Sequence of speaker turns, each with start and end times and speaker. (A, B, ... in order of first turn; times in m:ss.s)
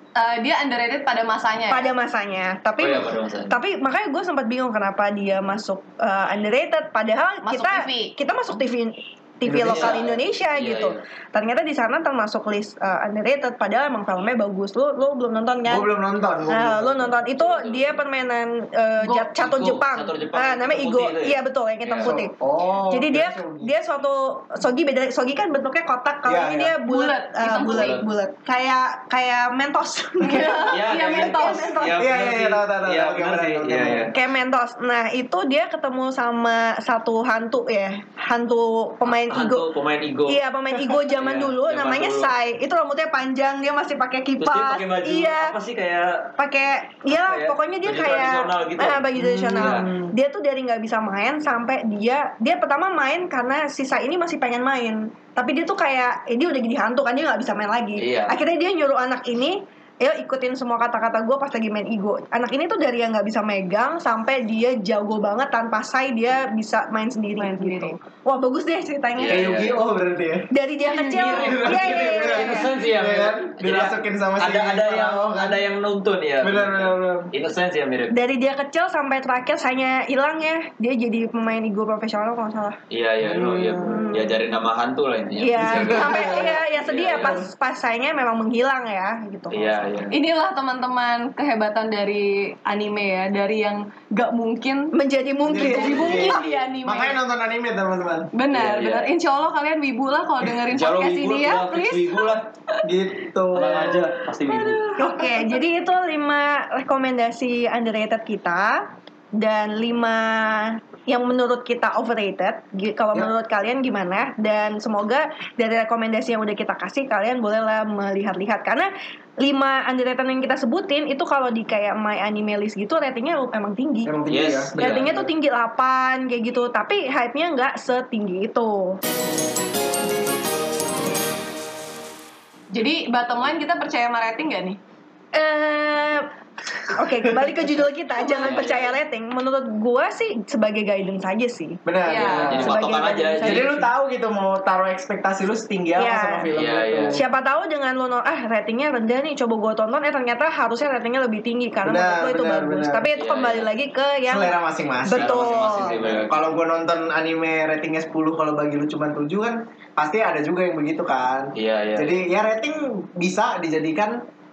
0:00.2-0:01.9 A
0:01.7-0:15.9 B
0:02.8-0:03.5 C
0:07.4-0:08.1 A
0:09.4-0:10.2 D
0:09.6-0:11.0 C
0:15.7-0:17.1 D
0:16.5-0:22.3 B
0:17.4-0:18.0 C
0:19.0-0:19.3 A
0:19.4-0:22.2 C
0:22.0-0:23.7 D
0:22.9-0:31.9 B
0:26.2-0:26.8 D
0:26.8-0:28.0 A
0:27.6-0:28.0 C
0:30.2-0:31.9 A
0:30.7-0:34.1 C
0:32.0-0:34.1 D
0:34.1-0:39.6 B
0:39.0-0:42.3 C
0:40.3-0:45.5 B
0:44.4-0:46.3 C
0:46.4-1:09.7 B
0:47.1-0:50.0 C
0:58.0-0:58.4 C
1:07.4-1:08.0 A
1:09.2-1:09.8 C
1:09.3-1:10.5 D
1:10.5-1:12.7 B
1:10.9-1:18.1 C
1:11.4-1:15.6 D
1:16.4-1:17.3 D
1:18.1-1:22.8 B
1:22.9-1:27.4 C
1:23.2-1:24.1 D
1:23.8-1:24.3 B
1:25.3-1:29.8 B
1:25.6-1:26.6 D
1:27.1-1:27.5 D
1:29.5-1:30.2 C
1:30.1-1:34.9 A
1:34.9-1:36.4 B
1:35.4-1:38.3 D
1:35.7-1:36.6 C
1:35.8-1:37.2 A
1:38.3-1:42.8 A
1:38.5-1:39.1 C
1:40.7-1:42.5 C
1:42.8-1:44.1 D
1:43.5-1:44.9 C
1:44.4-1:45.6 A
1:45.0-2:04.1 B
2:04.0-2:05.2 D
2:04.3-2:05.2 C
2:04.8-2:09.0 B
2:12.7-2:14.8 A
2:15.3-2:16.3 B
2:16.9-2:21.8 B
2:17.2-2:17.8 D
2:18.2-2:18.6 A
2:18.4-2:19.0 C
2:21.8-2:22.8 D
2:22.0-2:22.6 A
2:22.2-2:23.8 C
2:22.5-2:23.8 B
2:23.4-2:27.2 D
2:26.0-2:26.5 B
2:26.5-2:27.2 C
2:27.1-2:35.9 B
2:31.8-2:33.1 D
2:33.1-2:33.7 C
2:34.3-2:44.2 D
2:35.0-2:36.4 C
2:41.5-2:42.2 C